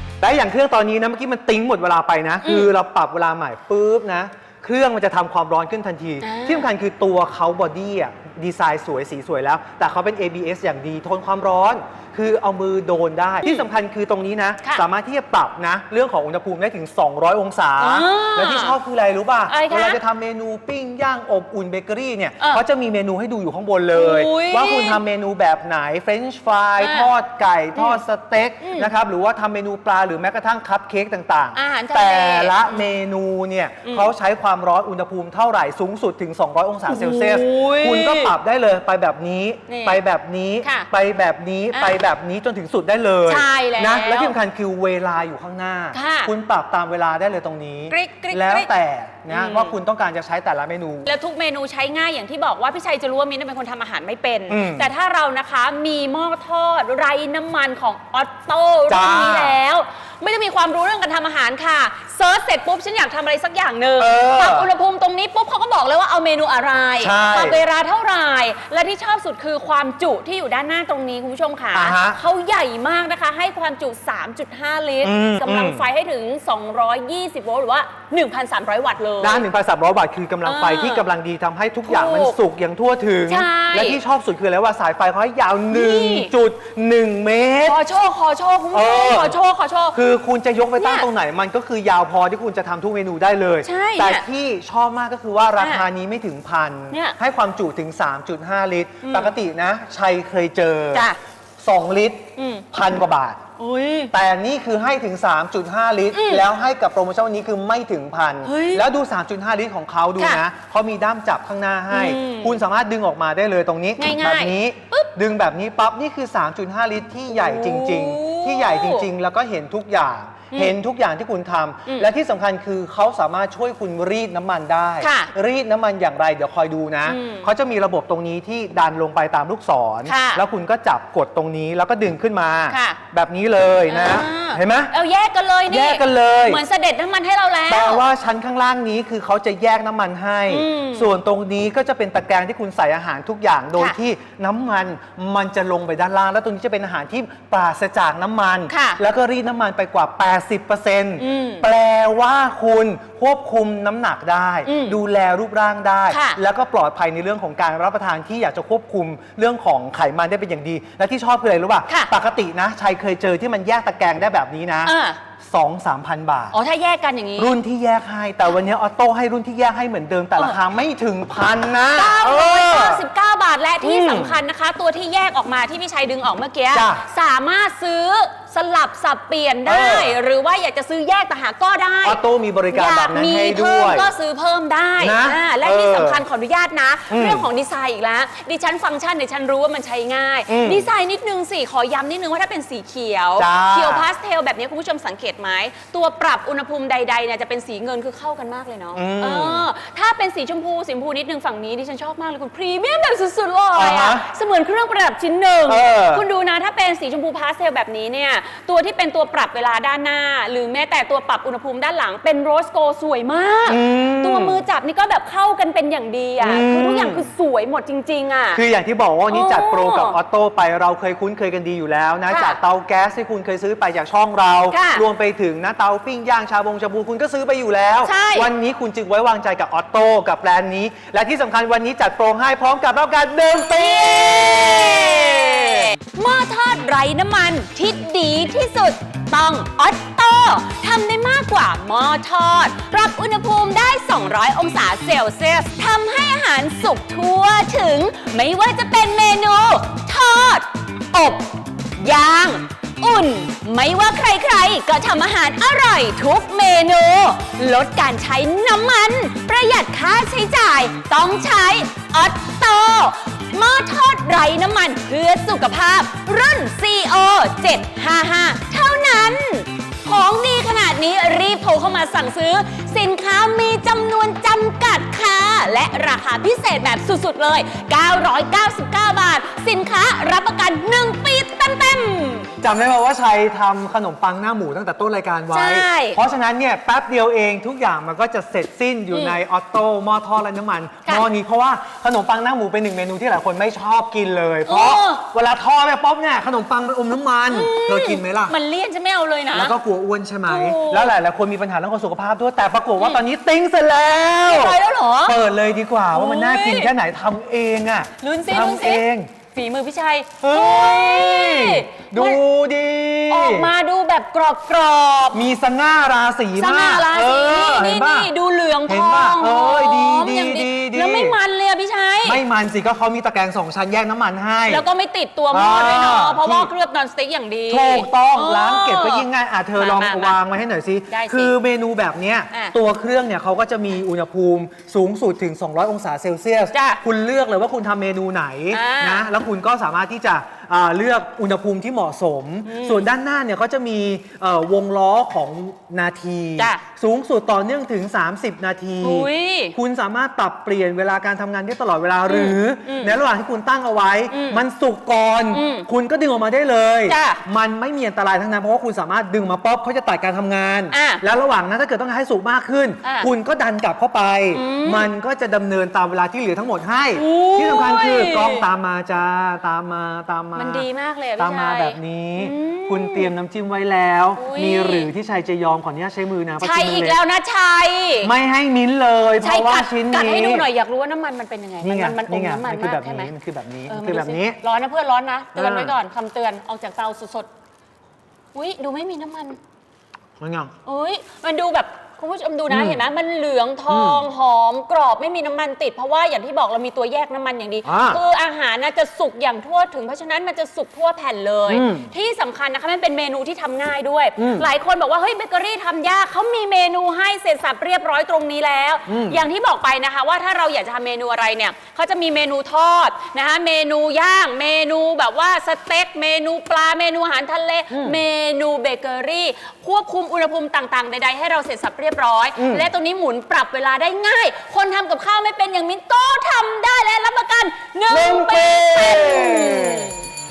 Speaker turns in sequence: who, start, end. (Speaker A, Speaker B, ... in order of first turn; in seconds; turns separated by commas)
Speaker A: 0.2-51.1, Speaker B: 2.4-2.7, Speaker B: 6.2-6.7, Speaker B: 17.8-18.8, Speaker B: 19.5-20.0, Speaker B: 23.9-25.0, Speaker B: 26.8-27.1, Speaker B: 28.6-28.9, Speaker B: 31.5-32.9, Speaker B: 36.9-38.3, Speaker B: 39.7-40.0, Speaker B: 40.6-40.9, Speaker B: 43.3-44.3, Speaker B: 45.9-46.3, Speaker B: 47.9-48.7, Speaker B: 49.3-49.7, Speaker B: 51.0-79.5, Speaker A: 54.5-54.9, Speaker A: 58.9-59.6, Speaker A: 64.0-64.7, Speaker A: 67.0-67.6, Speaker A: 71.7-72.2, Speaker A: 75.0-75.8, Speaker A: 79.2-87.8, Speaker B: 80.4-81.0, Speaker B: 81.9-82.4, Speaker B: 83.3-84.0, Speaker B: 85.7-86.3, Speaker B: 87.6-90.0, Speaker A: 88.7-89.4, Speaker A: 89.9-101.0, Speaker B: 90.8-91.1, Speaker B: 93.6-94.2, Speaker B: 95.6-95.8, Speaker B: 96.9-97.2, Speaker B: 99.0-99.3, Speaker B: 100.9-101.2, Speaker A: 101.6-103.4, Speaker B: 102.4-102.6, Speaker B: 103.6-104.1, Speaker A: 104.1-134.9, Speaker B: 106.1-106.5, Speaker B: 108.4-108.8, Speaker B: 111.9-112.6, Speaker B: 114.0-115.1, Speaker B: 117.3-119.1, Speaker B: 125.0-125.3, Speaker B: 127.0-127.5, Speaker B: 130.0-130.4, Speaker B: 132.7-133.0, Speaker B: 133.9-138.0, Speaker A: 135.7-136.6, Speaker A: 137.7-166.5, Speaker B: 140.5-141.1, Speaker B: 148.7-149.0, Speaker B: 151.2-151.7, Speaker B: 154.6-155.0, Speaker B: 156.1-156.4, Speaker B: 164.8-165.2, Speaker B: 166.5-167.5, Speaker A: 167.4-173.0, Speaker B: 171.9-182.2, Speaker A: 173.8-174.4, Speaker A: 176.7-177.0, Speaker A: 179.6-180.2, Speaker A: 182.0-184.1, Speaker B: 182.7-218.6, Speaker A: 185.0-186.2, Speaker A: 187.1-187.5, Speaker A: 190.5-190.9, Speaker A: 193.4-194.1, Speaker A: 198.9-199.6, Speaker A: 203.8-204.2, Speaker A: 205.7-206.2, Speaker A: 213.7-214.6, Speaker A: 216.4-217.3, Speaker A: 218.5-235.9, Speaker B: 219.3-220.2, Speaker B: 222.3-222.6, Speaker B: 224.7-225.0, Speaker B: 228.0-228.5, Speaker B: 233.8-282.5, Speaker A: 282.6-298.5, Speaker B: 285.5-286.2, Speaker B: 289.1-289.4, Speaker B: 294.7-295.2, Speaker B: 297.5-299.7, Speaker A: 299.5-309.3, Speaker B: 300.5-301.1, Speaker B: 304.5-305.4, Speaker B: 306.1-306.9, Speaker B: 308.2-312.4, Speaker A: 310.4-313.7, Speaker B: 313.3-315.4, Speaker A: 315.3-318.3, Speaker B: 316.6-322.4, Speaker A: 318.9-321.4, Speaker A: 322.2-324.8, Speaker B: 324.7-330.4, Speaker A: 325.5-326.7, Speaker A: 327.7-370.8, Speaker B: 331.1-331.5, Speaker B: 336.7-337.0, Speaker B: 338.7-339.2, Speaker B: 342.7-343.0, Speaker B: 346.6-346.8, Speaker B: 349.0-349.8, Speaker B: 352.3-353.2, Speaker B: 354.3-354.6, Speaker B: 355.5-355.9, Speaker B: 357.1-357.4, Speaker B: 360.9-361.2, Speaker B: 363.0-363.3, Speaker B: 364.5-365.1, Speaker B: 367.1-368.6, Speaker B: 370.5-373.3, Speaker A: 371.4-377.2, Speaker B: 374.4-375.1, Speaker B: 376.6-378.3, Speaker A: 378.2-380.7, Speaker B: 379.4-383.3, Speaker A: 381.8-384.6, Speaker B: 383.9-387.5, Speaker A: 385.5-385.9, Speaker B: 388.5-389.6, Speaker A: 390.4-390.7, Speaker B: 390.9-430.2, Speaker A: 392.7-393.0, Speaker A: 393.9-394.2, Speaker A: 397.8-398.2, Speaker A: 401.7-402.1, Speaker A: 404.4-404.7, Speaker A: 409.1-409.4, Speaker A: 417.9-418.2, Speaker A: 422.6-422.9, Speaker A: 428.1-430.1